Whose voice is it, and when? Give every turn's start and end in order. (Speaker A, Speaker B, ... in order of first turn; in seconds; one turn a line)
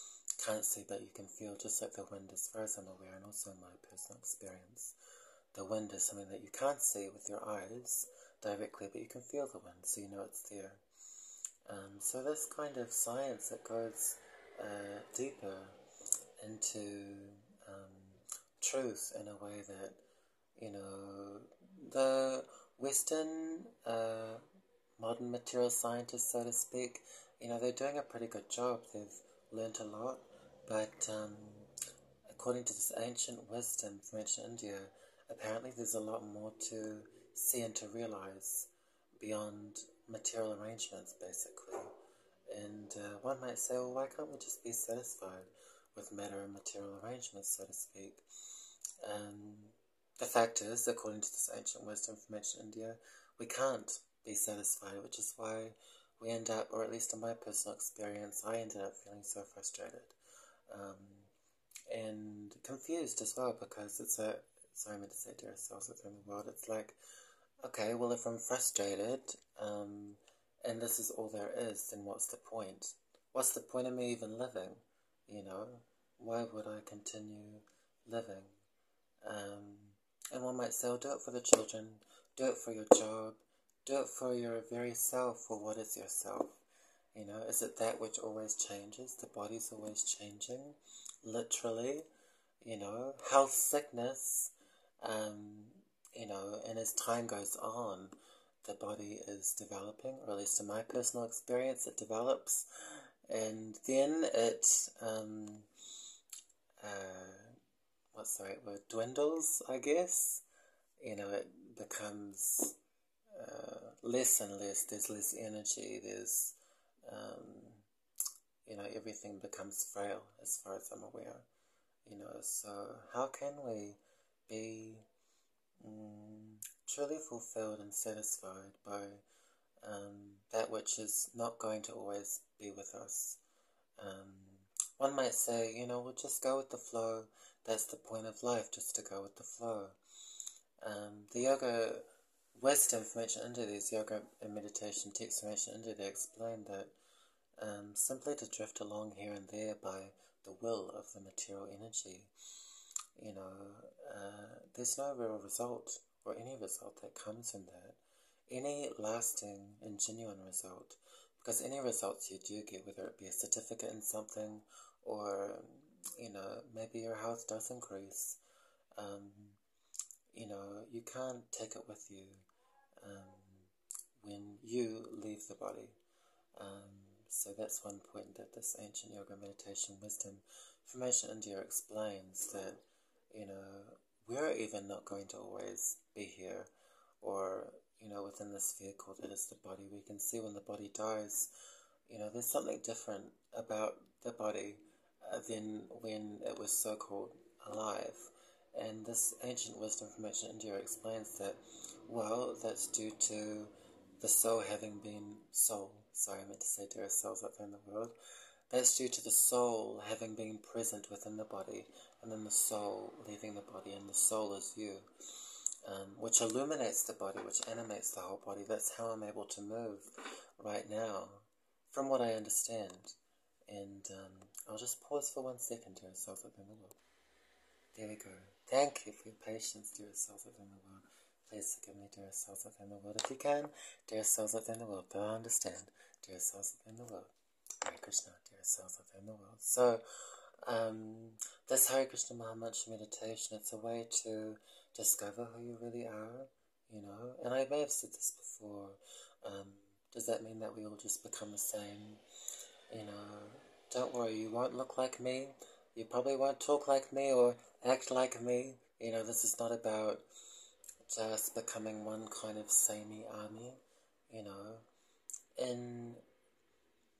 Speaker A: 0.4-4.9
Speaker A: 5.5-10.8
Speaker A: 11.7-15.7
Speaker A: 16.4-20.0
Speaker A: 20.6-24.4
Speaker A: 25.0-31.7
Speaker A: 32.3-41.9
Speaker A: 42.5-48.2
Speaker A: 49.0-60.1
Speaker A: 60.7-61.3
Speaker A: 61.9-67.0
Speaker A: 67.6-78.5
Speaker A: 79.2-86.6
Speaker A: 87.1-92.1
Speaker A: 92.6-102.7
Speaker A: 103.3-105.7
Speaker A: 106.8-107.5
Speaker A: 108.1-110.4
Speaker A: 111.0-112.8
Speaker A: 113.3-117.8
Speaker A: 118.7-121.5
Speaker A: 122.0-125.0
Speaker A: 125.8-129.2
Speaker A: 129.8-133.4
Speaker A: 134.0-140.0
Speaker A: 140.8-142.0
Speaker A: 142.6-146.9
Speaker A: 147.6-152.3
Speaker A: 153.2-168.4
Speaker A: 169.0-169.6
Speaker A: 170.3-172.4
Speaker A: 173.0-173.7
Speaker A: 174.2-175.9
Speaker A: 176.6-182.8
Speaker A: 183.3-186.7
Speaker A: 187.2-191.5
Speaker A: 192.1-208.1
Speaker A: 208.7-215.1
Speaker A: 215.8-223.2
Speaker A: 223.7-227.0
Speaker A: 227.9-240.0
Speaker A: 240.6-252.2
Speaker A: 252.9-260.2
Speaker A: 261.1-264.9
Speaker A: 265.6-266.2